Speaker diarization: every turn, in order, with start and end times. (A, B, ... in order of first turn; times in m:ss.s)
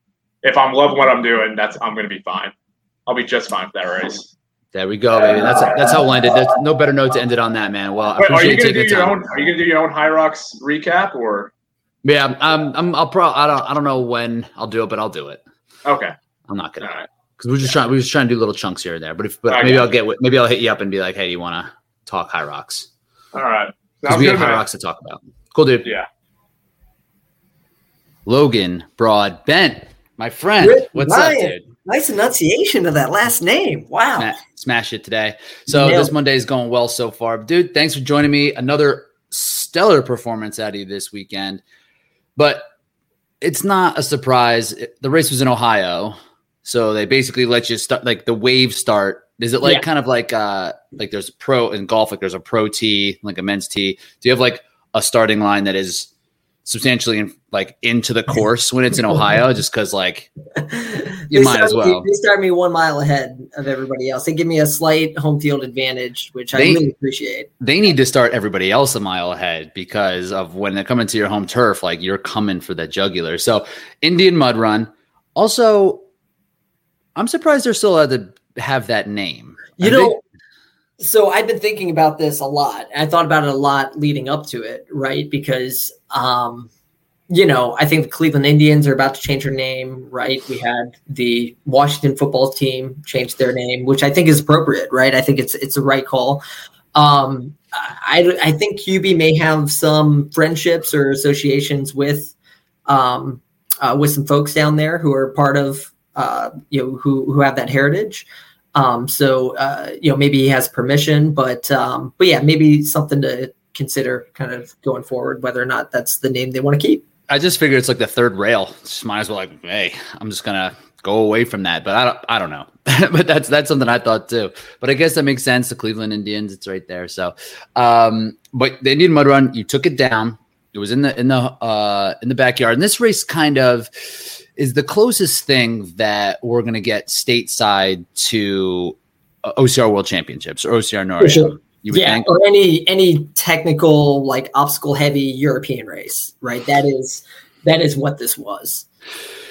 0:00.4-0:02.5 A
0:03.1-0:04.3 A
0:04.7-0:09.2 B
0:08.2-0:11.5 A
0:12.0-0:15.4 B
0:15.8-0:16.1 A
0:16.5-0:22.9 B
0:16.8-0:17.1 A
0:19.5-0:19.9 A
0:23.3-0:24.6 A
0:24.0-0:25.9 B
0:28.2-0:31.7 B
0:30.6-0:34.3 C
0:34.2-0:41.6 B
0:35.7-0:36.1 C
0:42.4-0:42.7 B
0:43.4-0:56.1 B
0:56.6-1:00.3 B
1:00.7-1:07.5 C
1:01.3-1:02.1 B
1:06.5-1:06.8 B
1:07.6-1:16.0 B
1:17.2-1:20.1 B
1:19.8-1:20.2 C
1:21.0-1:26.7 C
1:27.3-1:36.4 C
1:36.9-1:42.3 C
1:42.9-1:57.0 C
1:57.3-2:22.3 B
2:21.2-2:28.8 C